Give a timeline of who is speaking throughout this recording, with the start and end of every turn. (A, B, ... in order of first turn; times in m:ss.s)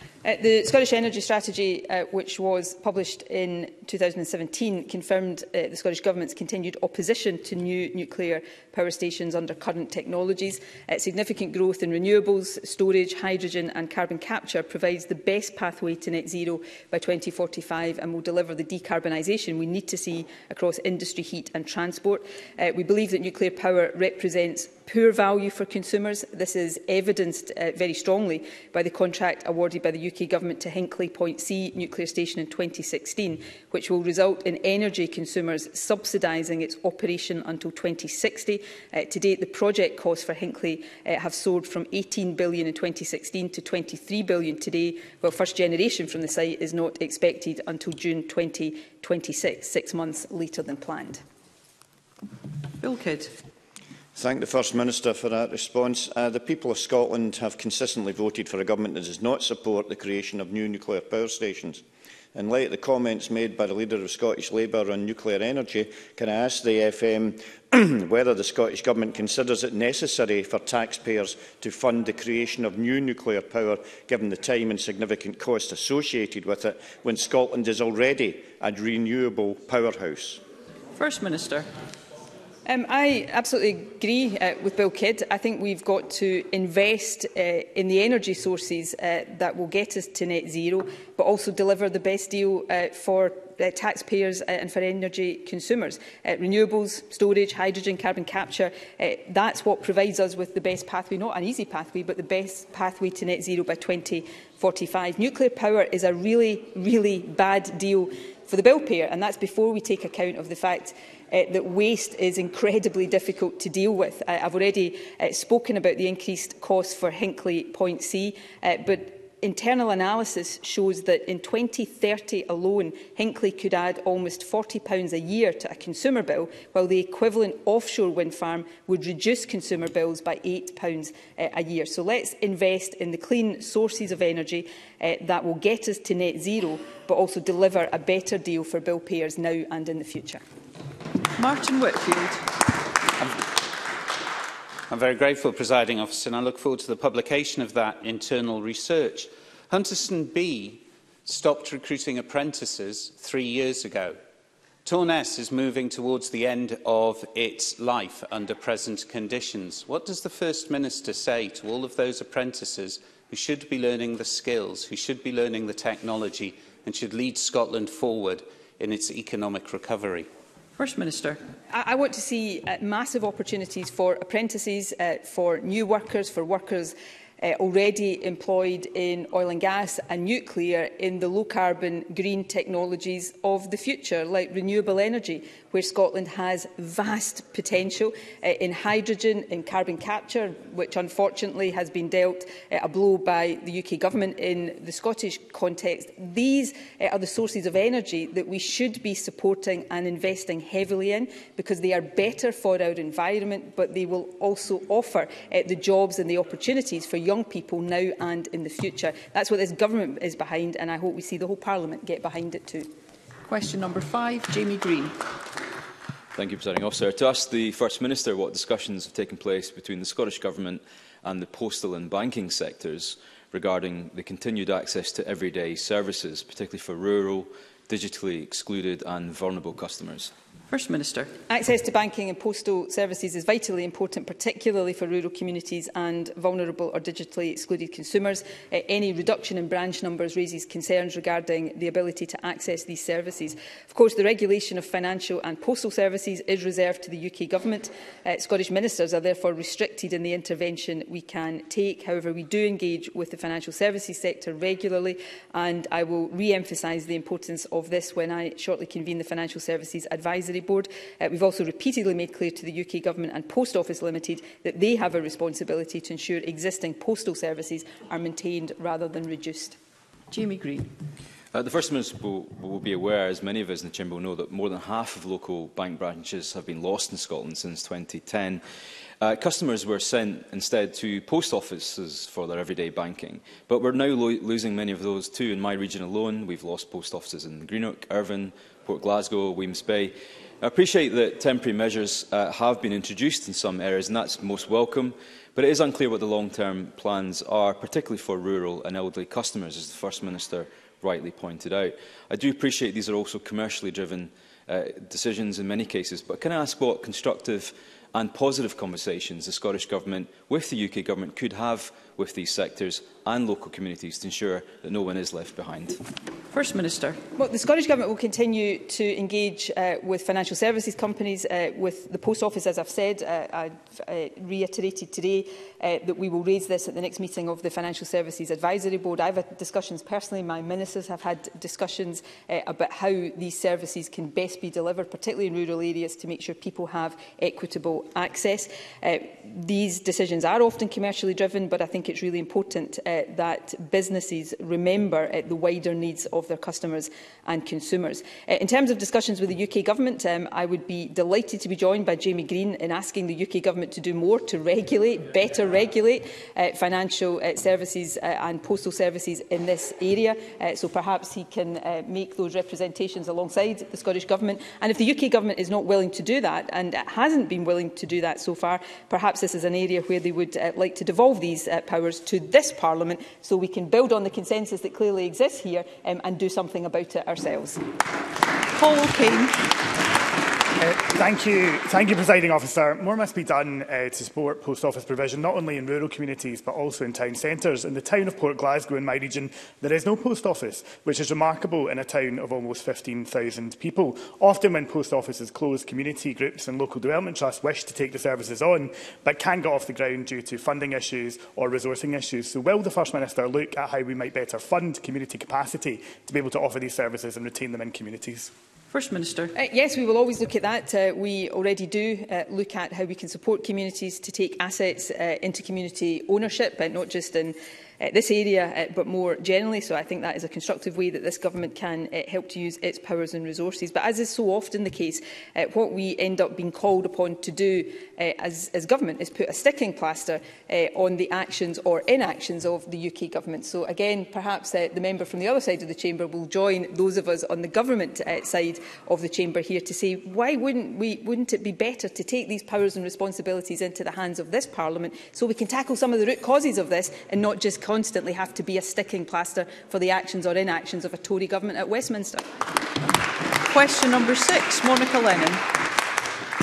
0:00.2-0:51.2 A
0:52.8-0:53.3 B
0:54.2-1:01.8 C
1:02.3-1:20.4 C
1:20.9-1:21.7 B
1:22.6-2:20.4 A
2:21.4-2:22.4 B
2:24.9-2:34.2 D
2:34.8-2:50.3 D
2:50.8-2:51.4 B
2:51.7-3:32.9 A
3:33.5-3:35.2 B
3:36.4-3:50.3 E
3:50.7-3:51.3 B
3:51.5-4:29.8 A
4:30.3-4:30.9 B
4:31.5-4:38.6 E
4:39.2-5:16.0 E
5:16.5-5:17.2 B
5:17.4-6:17.8 A
6:18.8-6:19.6 B
6:20.8-6:48.5 F
6:48.9-6:49.5 B
6:49.5-7:32.4 A
7:33.6-7:35.6 B